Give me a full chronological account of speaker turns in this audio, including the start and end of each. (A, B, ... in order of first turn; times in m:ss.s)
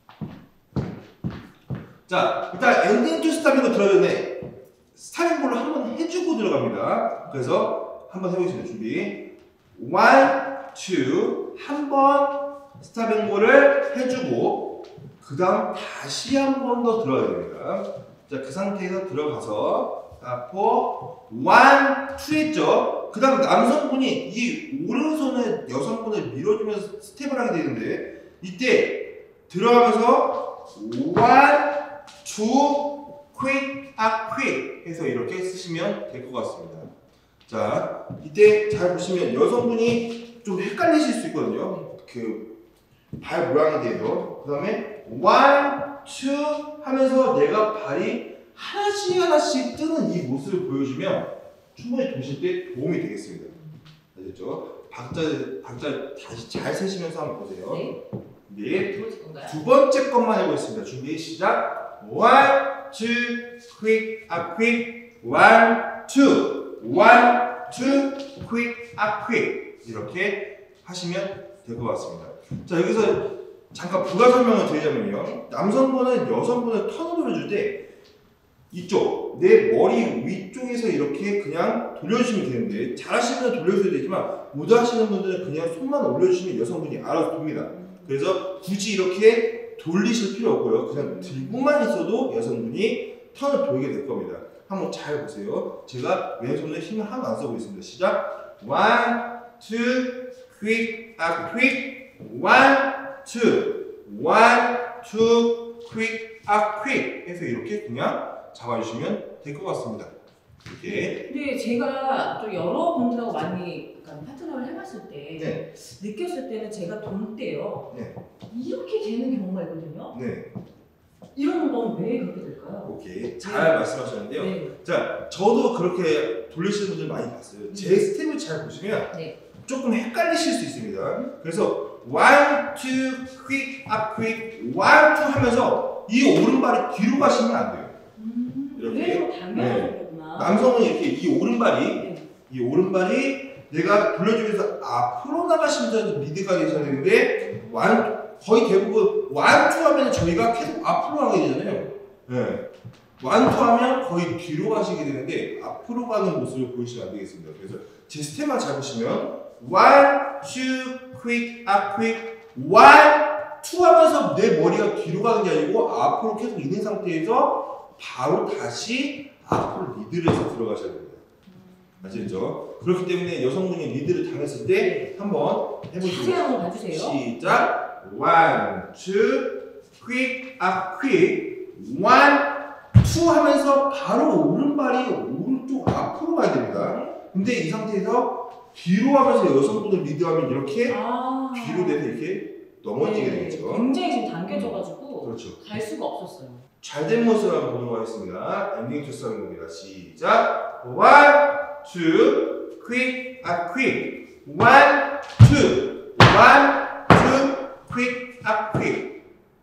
0:02.1-0:04.4 A
0:04.9-0:36.9 A
0:37.5-0:42.6 A
0:43.2-0:53.5 A
0:54.1-0:57.9 A
0:57.7-0:58.0 B
0:58.5-1:17.8 A
0:58.7-0:59.6 B
1:18.7-1:50.1 A
1:27.7-1:28.1 B
1:31.0-1:31.6 B
1:50.6-1:51.3 A
1:50.8-1:57.9 B
1:55.4-1:55.6 A
1:57.9-1:58.2 A
1:58.5-2:00.1 B
2:00.1-2:00.5 A
2:01.3-2:03.8 B
2:02.8-2:09.1 A
2:04.3-2:04.7 B
2:07.7-2:08.0 B
2:09.6-2:17.9 A
2:18.2-2:20.7 B
2:18.7-2:32.7 A
2:22.0-2:22.2 B
2:26.8-2:27.9 B
2:33.2-2:51.2 A
2:51.6-2:52.4 B
2:52.0-3:11.0 A
2:54.8-2:55.1 B
2:56.0-2:57.2 B
3:06.7-3:07.1 B
3:10.9-3:12.0 B
3:11.5-3:13.9 A
3:13.0-3:16.6 B
3:14.5-3:15.6 A
3:16.8-3:29.2 A